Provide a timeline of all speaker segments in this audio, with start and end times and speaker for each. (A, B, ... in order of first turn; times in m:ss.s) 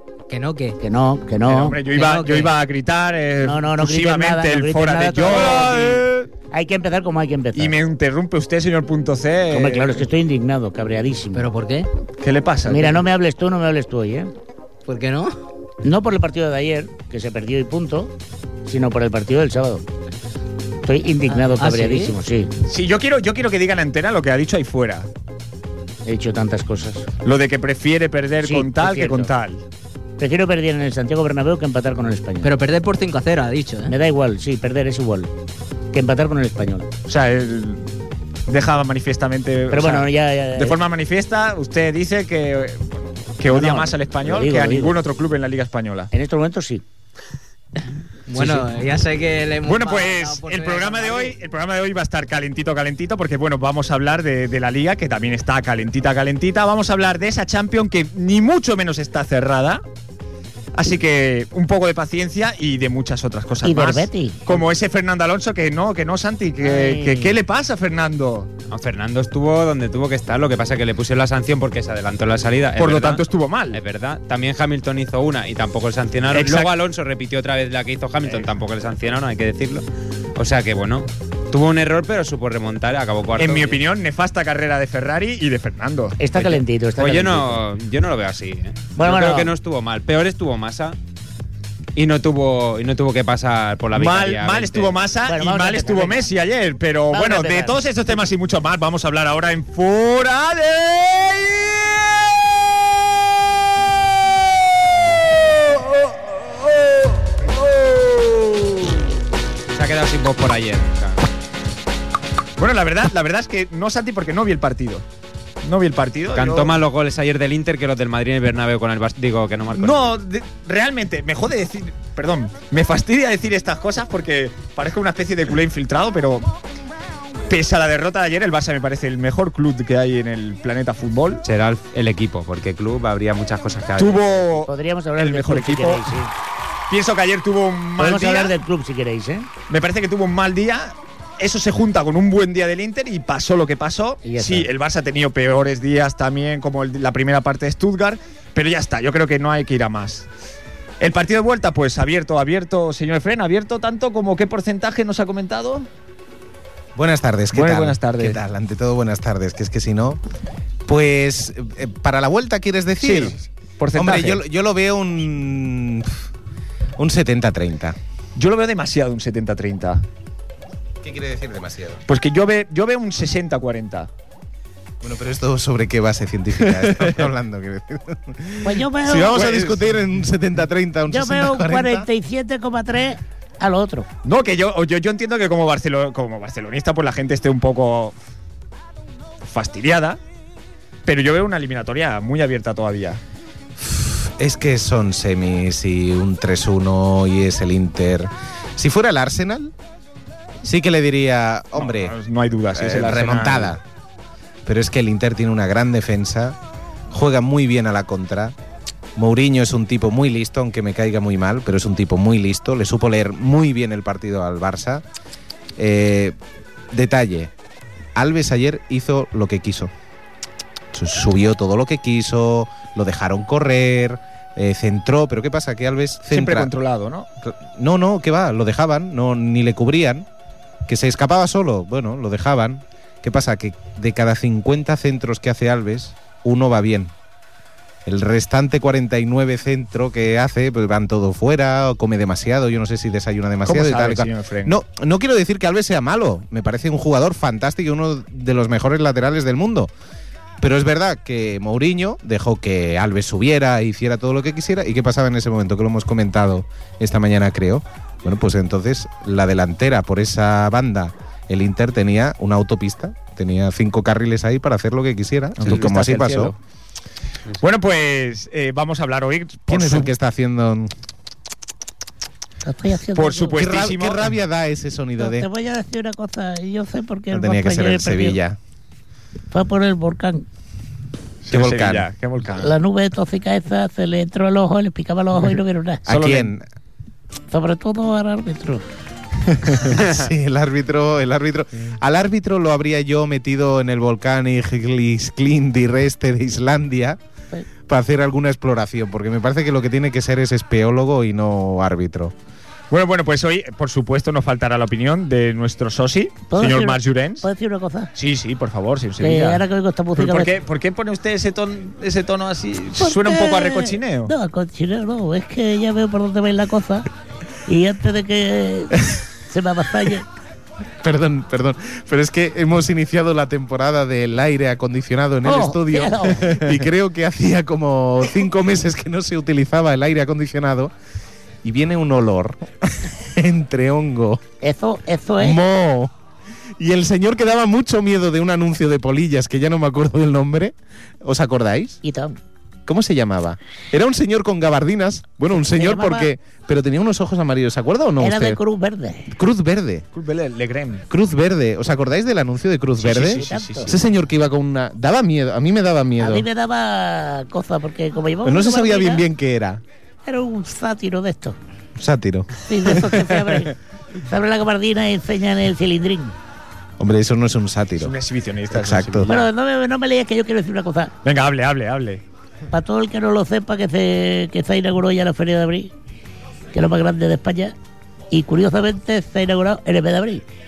0:00.3-0:00.8 A
0:00.8-0:01.8 B
0:01.5-0:06.3 C
0:01.9-0:02.5 A
0:03.4-0:07.8 B
0:07.5-0:10.0 C
0:09.5-0:11.5 B
0:11.3-0:11.9 A
0:12.2-0:13.0 C
0:12.6-0:14.3 B
0:14.9-0:15.4 A
0:15.8-0:18.1 B
0:18.6-0:19.8 B
0:20.8-0:22.5 B
0:21.5-0:22.2 A
0:22.6-0:25.1 C
0:26.0-0:27.1 B
0:27.2-0:29.6 C
0:28.4-0:29.3 B
0:30.2-0:32.5 B
0:32.4-0:33.9 A
0:33.9-0:35.3 B
0:35.9-0:36.9 B
0:37.1-0:37.8 C
0:38.5-0:46.1 C
0:39.7-0:40.8 B
0:43.5-0:45.0 B
0:46.1-0:46.8 B
0:48.3-0:51.4 A
0:48.3-0:48.6 C
0:49.6-0:59.8 C
1:00.7-1:08.5 C
1:03.6-1:04.6 B
1:06.6-1:07.4 B
1:08.7-1:23.8 D
1:12.8-1:13.8 C
1:16.3-1:16.7 C
1:23.4-1:26.2 C
1:26.2-1:27.6 B
1:26.3-1:31.0 D
1:28.9-1:29.5 B
1:31.9-1:35.0 D
1:33.9-1:41.5 C
1:35.3-1:36.3 B
1:37.1-1:37.8 B
1:49.7-1:51.2 D
1:52.6-1:55.0 C
1:55.6-1:56.7 C
1:56.3-2:00.1 D
1:59.7-2:06.5 C
2:07.5-2:11.4 C
2:11.4-2:14.4 D
2:14.0-2:16.0 C
2:14.6-2:16.3 B
2:16.9-2:18.6 C
2:18.0-2:19.5 B
2:19.7-2:30.2 C
2:24.2-2:24.7 B
2:31.0-2:35.9 C
2:36.9-2:40.2 E
2:37.5-2:38.4 C
2:40.8-2:43.4 E
2:43.0-2:44.4 C
2:43.9-2:46.2 E
2:47.0-2:48.0 E
2:48.4-2:50.0 C
2:51.0-2:52.0 E
2:52.1-2:54.1 C
2:55.0-3:02.1 E
2:58.6-2:59.4 B
2:59.3-2:59.9 C
3:01.1-3:04.1 B
3:04.2-3:08.2 C
3:09.4-3:10.2 C
3:11.0-3:13.2 C
3:13.8-3:19.7 E
3:20.6-3:22.1 E
3:21.7-3:23.8 C
3:22.7-3:23.8 E
3:24.6-3:26.6 E
3:27.1-3:28.5 E
3:29.2-3:35.0 E
3:35.8-3:36.4 E
3:36.9-3:37.5 E
3:38.1-3:39.9 E
3:40.9-3:46.7 E
3:46.3-3:47.3 C
3:47.4-3:50.3 E
3:50.9-3:57.1 E
3:58.0-4:09.9 E
4:03.6-4:04.8 C
4:10.6-4:26.5 E
4:25.6-4:26.6 C
4:27.6-4:30.1 C
4:29.7-4:30.9 E
4:32.6-4:33.6 B
4:33.1-4:34.3 C
4:33.6-4:35.5 E
4:35.2-4:38.4 B
4:37.3-4:38.6 E
4:39.5-4:40.4 B
4:41.4-4:42.7 C
4:41.5-4:42.1 E
4:42.6-4:46.0 B
4:46.0-4:46.6 E
4:46.1-4:46.5 C
4:47.5-4:48.8 B
4:49.6-4:57.2 E
4:57.9-5:02.3 E
5:02.9-5:07.5 C
5:06.5-5:08.1 B
5:08.2-5:09.6 C
5:09.2-5:10.5 B
5:10.2-5:14.3 C
5:13.0-5:17.1 B
5:17.6-5:20.3 B
5:21.0-5:30.9 E
5:25.4-5:26.6 B
5:31.6-5:34.4 E
5:34.6-5:35.6 B
5:35.4-5:36.1 E
5:36.8-5:42.0 E
5:42.0-5:42.4 B
5:42.9-5:48.6 E
5:45.5-5:46.3 B
5:48.2-5:49.3 B
5:49.3-5:50.0 E
5:50.1-5:51.0 C
5:51.1-5:56.5 E
5:53.0-5:53.9 B
5:53.0-5:54.0 C
5:56.2-5:59.2 B
5:58.4-5:59.8 E
6:00.2-6:01.6 B
6:02.0-6:03.7 E
6:02.7-6:06.3 B
6:07.0-6:08.1 E
6:08.0-6:09.5 C
6:08.7-6:09.3 E
6:09.2-6:11.1 B
6:11.2-6:12.2 C
6:12.7-6:15.9 B
6:16.7-6:17.7 B
6:18.3-6:20.4 B